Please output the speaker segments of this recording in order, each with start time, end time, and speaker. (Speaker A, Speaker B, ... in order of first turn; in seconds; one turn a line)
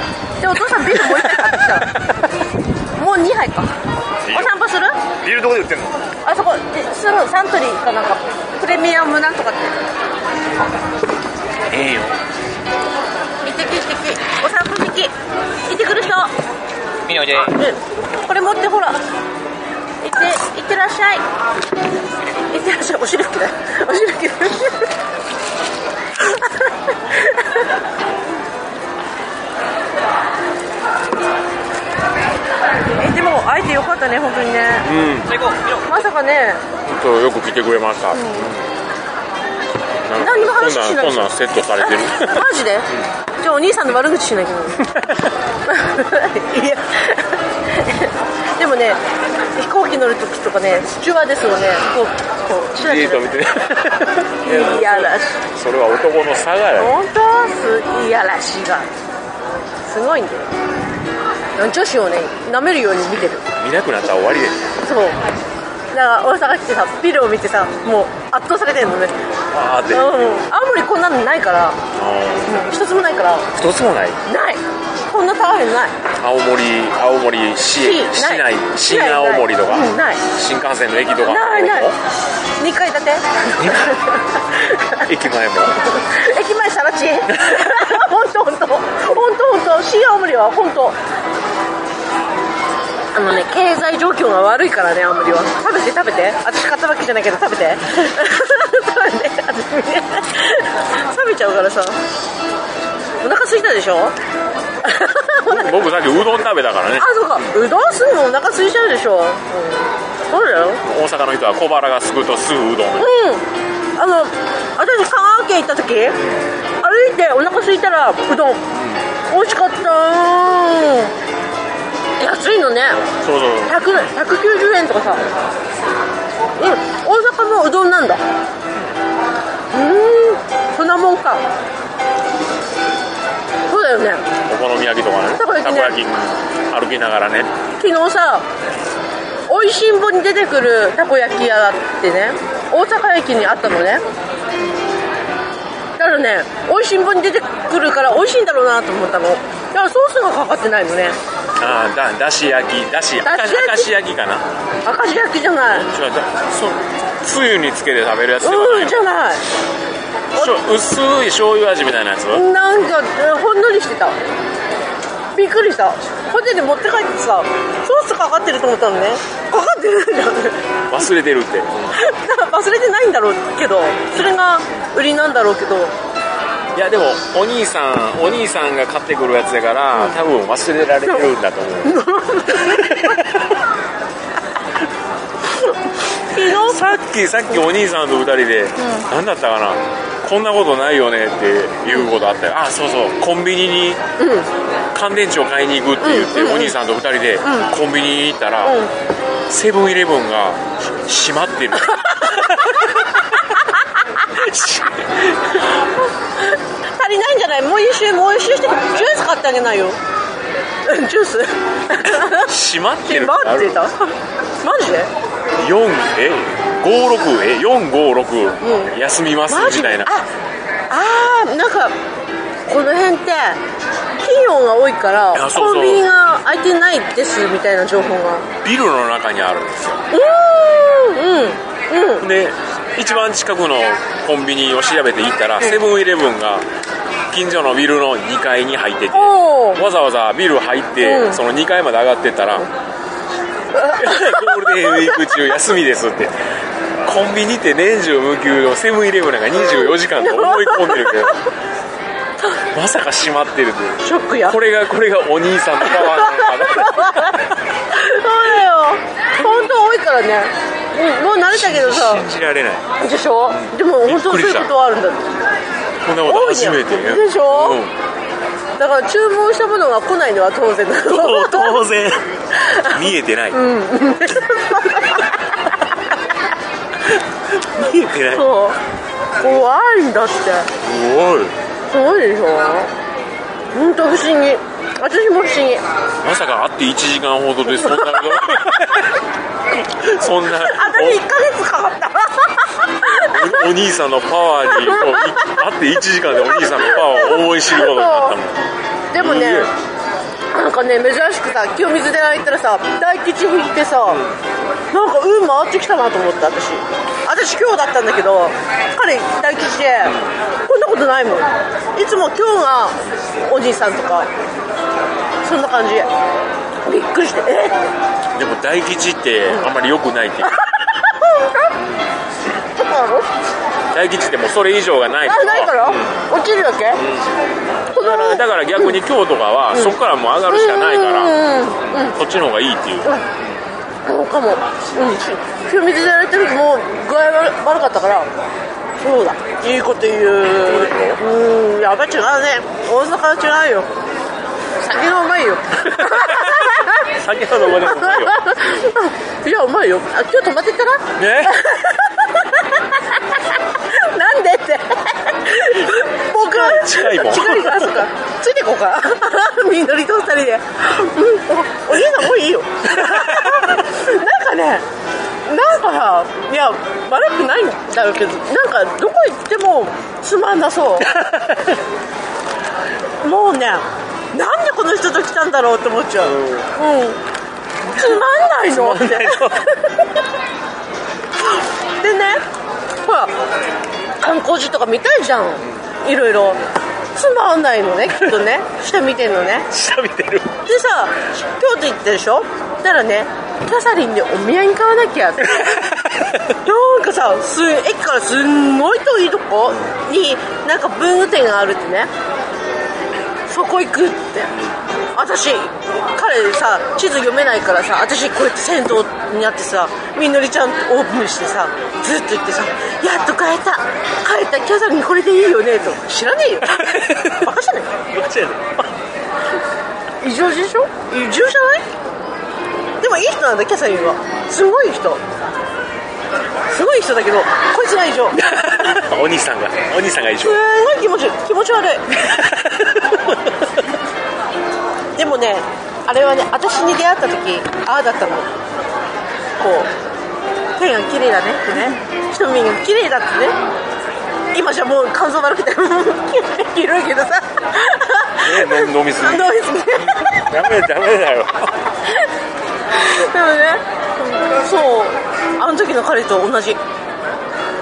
Speaker A: 0.4-2.0
Speaker B: 0.8-1.6
Speaker A: 3.0-3.8
Speaker C: 4.2-4.5
Speaker A: 4.3-5.0
Speaker C: 5.2-6.0
Speaker A: 6.2-9.8
Speaker C: 11.7-12.2
Speaker A: 13.4-15.1
Speaker A: 15.7-16.3
Speaker C: 17.1-17.6
Speaker A: 17.5-19.0
Speaker A: 20.0-21.2
Speaker A: 22.5-24.9
Speaker A: 26.2-27.6
Speaker A: 33.0-34.9
Speaker B: 34.8-35.3
Speaker C: 35.3-35.9
Speaker A: 35.9-36.6
Speaker B: 36.8-38.7
Speaker A: 38.1-38.6
Speaker B: 40.1-42.5
Speaker A: 40.2-45.0
Speaker B: 44.9-45.3
Speaker A: 45.7-49.0
Speaker A: 49.5-53.3
Speaker B: 52.8-57.0
Speaker A: 54.4-55.4
Speaker A: 56.8-58.9
Speaker A: 59.8-60.5
Speaker A: 61.6-63.5
Speaker B: 63.6-64.7
Speaker A: 64.8-65.2
Speaker A: 65.9-69.2
Speaker B: 69.5-70.4
Speaker A: 69.9-71.8
Speaker B: 71.9-72.8
Speaker A: 72.5-73.5
Speaker B: 73.5-74.2
Speaker A: 74.2-76.0
Speaker B: 76.2-82.0
Speaker A: 77.7-80.2
Speaker A: 81.2-81.9
Speaker A: 82.6-85.1
Speaker B: 83.6-84.0
Speaker B: 85.0-85.8
Speaker A: 85.7-91.0
Speaker B: 87.3-88.0
Speaker A: 93.1-102.0
Speaker A: 103.2-104.2
Speaker A: 104.8-105.7
Speaker B: 105.5-107.5
Speaker A: 107.0-110.8
Speaker B: 110.8-113.1
Speaker A: 113.0-113.4
Speaker A: 114.0-116.2
Speaker A: 116.8-118.7
Speaker B: 118.7-119.0
Speaker A: 119.3-121.1
Speaker A: 122.2-123.0
Speaker B: 123.2-123.8
Speaker A: 123.7-125.3
Speaker A: 126.6-128.2
Speaker A: 129.7-131.4
Speaker A: 133.7-134.2
Speaker B: 134.5-137.5
Speaker A: 135.4-136.0
Speaker A: 137.8-138.5
Speaker A: 139.5-144.0
Speaker A: 146.0-151.2
Speaker B: 151.6-154.5
Speaker A: 153.2-153.9
Speaker A: 154.8-155.9
Speaker B: 155.7-159.0
Speaker A: 158.4-159.4
Speaker B: 160.4-162.4
Speaker A: 162.3-164.2
Speaker A: 165.3-170.6
Speaker B: 170.9-171.9
Speaker A: 171.9-175.9
Speaker B: 176.7-182.0
Speaker A: 181.8-183.2
Speaker B: 182.6-183.4
Speaker A: 186.3-186.9
Speaker B: 186.4-194.0
Speaker A: 188.8-189.1
Speaker A: 194.2-194.5
Speaker B: 194.9-198.8
Speaker A: 196.0-196.8
Speaker A: 197.4-197.7
Speaker A: 198.6-198.9
Speaker B: 199.5-203.5
Speaker A: 201.9-203.0
Speaker B: 204.2-205.7
Speaker A: 206.4-210.0
Speaker A: 210.8-212.5
Speaker B: 212.1-213.9
Speaker A: 213.1-215.1
Speaker B: 215.6-220.2
Speaker A: 218.6-218.9
Speaker A: 219.5-220.3
Speaker A: 220.9-221.9
Speaker A: 222.7-223.6
Speaker A: 224.2-228.5
Speaker B: 225.3-226.1
Speaker B: 228.0-230.1
Speaker A: 230.1-232.2
Speaker B: 232.2-236.7
Speaker B: 237.3-242.7
Speaker A: 239.1-239.8
Speaker A: 241.0-241.4
Speaker A: 243.8-245.2
Speaker B: 243.9-246.4
Speaker B: 247.0-251.4
Speaker A: 249.8-251.4
Speaker B: 252.6-257.4
Speaker A: 254.0-254.6
Speaker A: 255.8-262.2
Speaker B: 261.5-262.9
Speaker A: 263.0-265.3
Speaker B: 263.5-264.7
Speaker B: 266.0-268.0
Speaker A: 266.2-267.8
Speaker A: 268.8-271.8
Speaker B: 271.0-272.3
Speaker A: 272.6-273.0
Speaker B: 272.8-273.6
Speaker A: 273.5-275.3
Speaker B: 277.1-278.5
Speaker A: 278.3-278.8
Speaker A: 279.4-280.7
Speaker B: 280.8-281.6
Speaker A: 281.9-282.9
Speaker A: 283.7-285.8
Speaker B: 286.2-289.1
Speaker A: 287.8-288.6
Speaker B: 289.7-291.2
Speaker A: 290.6-293.6
Speaker B: 293.1-299.7
Speaker A: 294.7-295.6
Speaker A: 296.3-298.4
Speaker A: 299.1-299.7
Speaker A: 300.5-304.2
Speaker A: 304.9-314.3
Speaker A: 315.4-316.1
Speaker A: 316.9-317.9
Speaker B: 318.3-320.7
Speaker A: 320.4-321.7
Speaker A: 322.8-323.3
Speaker B: 323.9-326.0
Speaker A: 325.3-327.0
Speaker C: 327.0-327.3
Speaker A: 327.9-329.0
Speaker B: 327.9-331.4
Speaker A: 329.7-330.0
Speaker A: 330.5-332.2
Speaker B: 332.0-333.1
Speaker A: 334.0-338.3
Speaker A: 339.0-343.9
Speaker B: 340.6-341.2
Speaker A: 344.8-347.1
Speaker B: 345.9-348.6
Speaker A: 347.7-364.9
Speaker B: 351.2-351.6
Speaker B: 356.4-358.1
Speaker B: 362.9-363.8
Speaker A: 365.4-371.2
Speaker B: 371.0-371.8
Speaker A: 373.2-377.2
Speaker B: 376.3-376.7
Speaker A: 377.9-380.1
Speaker B: 377.9-379.7
Speaker A: 381.5-382.4
Speaker A: 383.0-383.3
Speaker A: 384.2-386.6
Speaker A: 387.1-389.7
Speaker B: 389.7-390.6
Speaker A: 390.6-395.9
Speaker B: 395.6-396.4
Speaker A: 396.5-402.1
Speaker A: 403.5-418.0
Speaker B: 416.7-417.5
Speaker B: 418.1-418.9
Speaker A: 420.2-421.9
Speaker A: 423.0-425.2
Speaker A: 426.7-428.4
Speaker B: 428.4-430.6
Speaker A: 430.4-432.2
Speaker B: 432.2-433.7
Speaker A: 435.2-438.5
Speaker A: 439.6-439.9
Speaker A: 440.8-443.6
Speaker A: 444.5-450.4
Speaker B: 448.4-451.8
Speaker A: 452.9-456.8